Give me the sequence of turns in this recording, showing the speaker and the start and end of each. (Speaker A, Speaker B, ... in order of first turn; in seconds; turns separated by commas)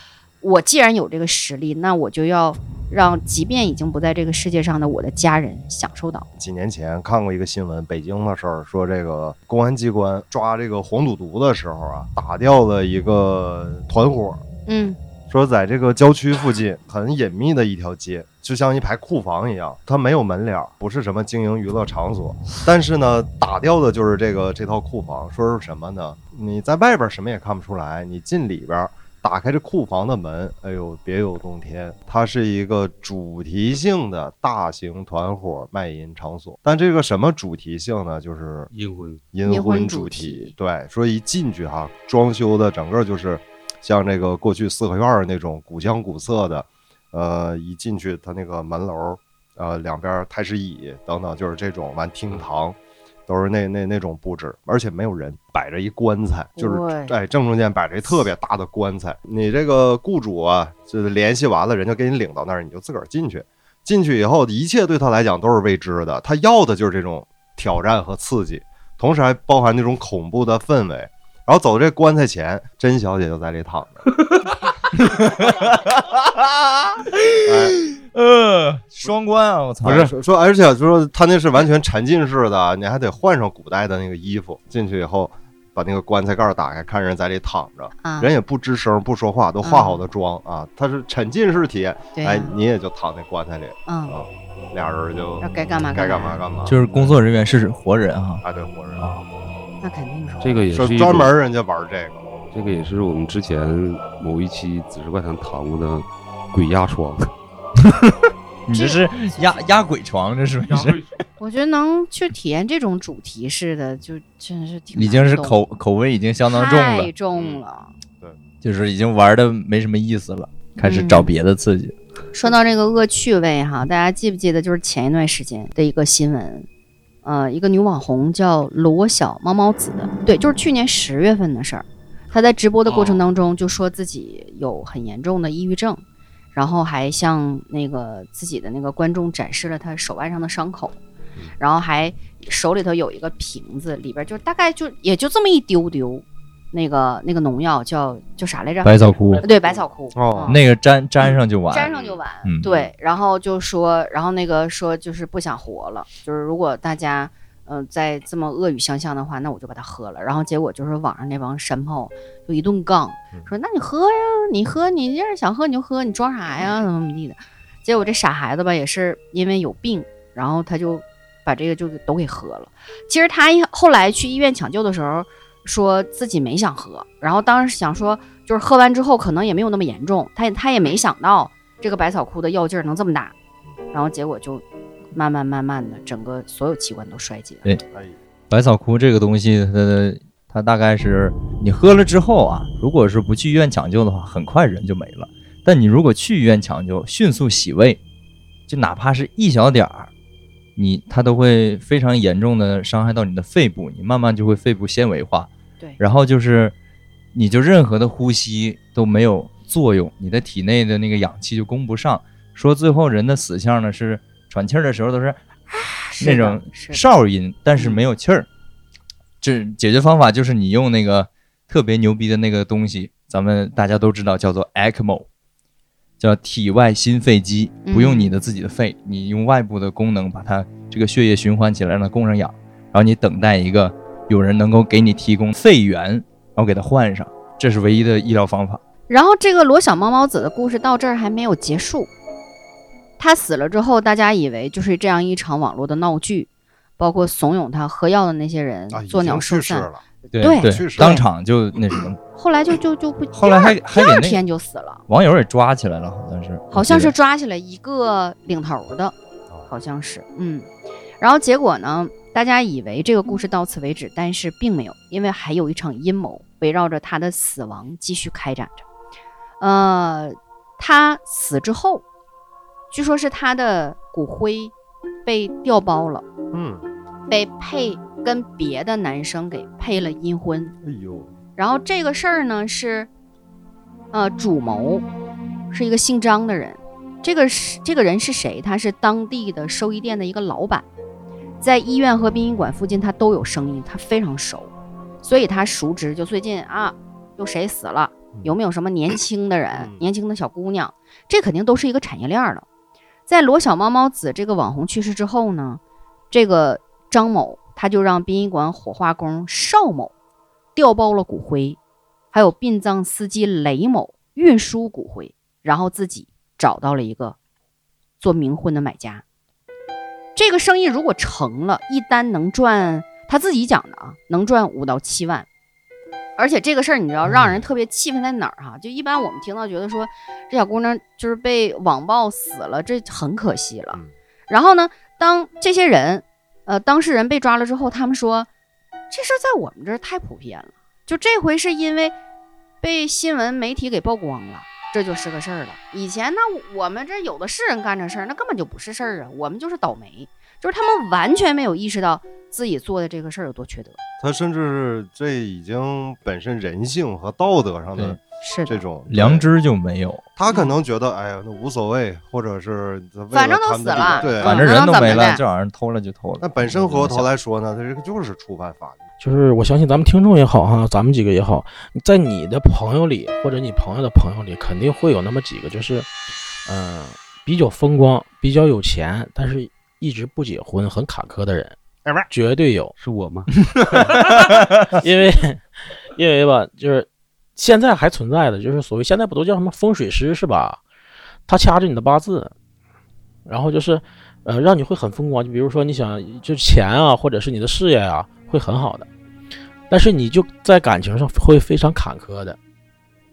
Speaker A: 0.4-6.3, Speaker B: 6.4-14.4, Speaker A: 14.7-15.0, Speaker B: 15.3-38.7, Speaker C: 38.7-39.2, Speaker B: 39.3-74.0, Speaker A: 39.4-40.5, Speaker A: 56.6-57.1, Speaker D: 75.0-80.1, Speaker B: 77.4-77.8, Speaker B: 79.8-97.2, Speaker A: 88.0-88.3, Speaker A: 89.6-90.0, Speaker A: 92.2-92.5, Speaker A: 93.9-94.2, Speaker A: 95.4-96.4, Speaker D: 96.7-98.4, Speaker B: 98.4-99.1, Speaker D: 99.0-99.2, Speaker A: 99.8-100.5, Speaker C: 100.4-101.3, Speaker B: 100.7-102.2, Speaker C: 102.5-107.3, Speaker D: 108.7-111.0, Speaker A: 108.7-109.0, Speaker C: 110.7-111.1, Speaker A: 111.4-115.6, Speaker D: 115.0-117.1, Speaker A: 116.5-117.9, Speaker D: 118.6-122.0, Speaker A: 120.8-121.3, Speaker A: 122.3-126.7, Speaker A: 127.2-136.0, Speaker C: 132.9-133.2, Speaker A: 136.6-141.0, Speaker A: 141.6-150.6, Speaker D: 148.8-149.4, Speaker B: 150.1-150.6, Speaker D: 150.5-151.9, Speaker A: 151.7-183.3, Speaker C: 151.9-152.2, Speaker A: 183.9-187.7, Speaker B: 187.9-188.2, Speaker D: 188.5-198.0, Speaker D: 198.7-200.1, Speaker D: 200.8-206.7, Speaker D: 207.3-215.4, Speaker A: 215.7-217.0, Speaker D: 216.2-218.5, Speaker A: 217.8-218.0, Speaker D: 219.4-225.3, Speaker D: 226.2-238.8, Speaker A: 227.9-228.3, Speaker A: 239.1-242.1, Speaker A: 243.2-251.2, Speaker B: 248.9-250.0, Speaker D: 250.3-252.2, Speaker B: 250.6-251.2, Speaker A: 252.3-255.0, Speaker D: 253.3-254.4, Speaker D: 255.1-257.1, Speaker A: 256.7-259.1, Speaker A: 259.7-260.7, Speaker A: 261.2-268.9, Speaker A: 269.6-272.0, Speaker A: 272.9-274.7, Speaker A: 275.3-276.3, Speaker B: 276.5-276.8, Speaker A: 277.3-280.8, Speaker B: 280.8-281.3, Speaker A: 281.6-283.1, Speaker A: 284.1-285.1, Speaker A: 285.7-290.9, Speaker A: 291.6-294.7, Speaker A: 295.2-302.6, Speaker B: 299.7-300.1, Speaker A: 303.3-310.1, Speaker A: 310.8-311.8, Speaker A: 312.3-317.4, Speaker A: 318.2-319.2, Speaker A: 320.4-325.5, Speaker A: 326.4-338.5, Speaker B: 327.2-327.6, Speaker A: 339.1-342.1, Speaker A: 342.8-354.0, Speaker B: 354.2-359.5, Speaker A: 358.4-358.8, Speaker D: 359.1-360.3, Speaker B: 360.4-365.1, Speaker A: 363.3-365.4, Speaker D: 364.4-367.3, Speaker B: 366.4-369.0, Speaker E: 369.2-376.1, Speaker E: 376.7-381.8, Speaker E: 382.3-382.9, Speaker C: 383.0-384.0, Speaker E: 384.9-385.6, Speaker E: 386.2-390.8, Speaker E: 391.5-392.5, Speaker E: 393.5-399.1, Speaker E: 399.9-402.6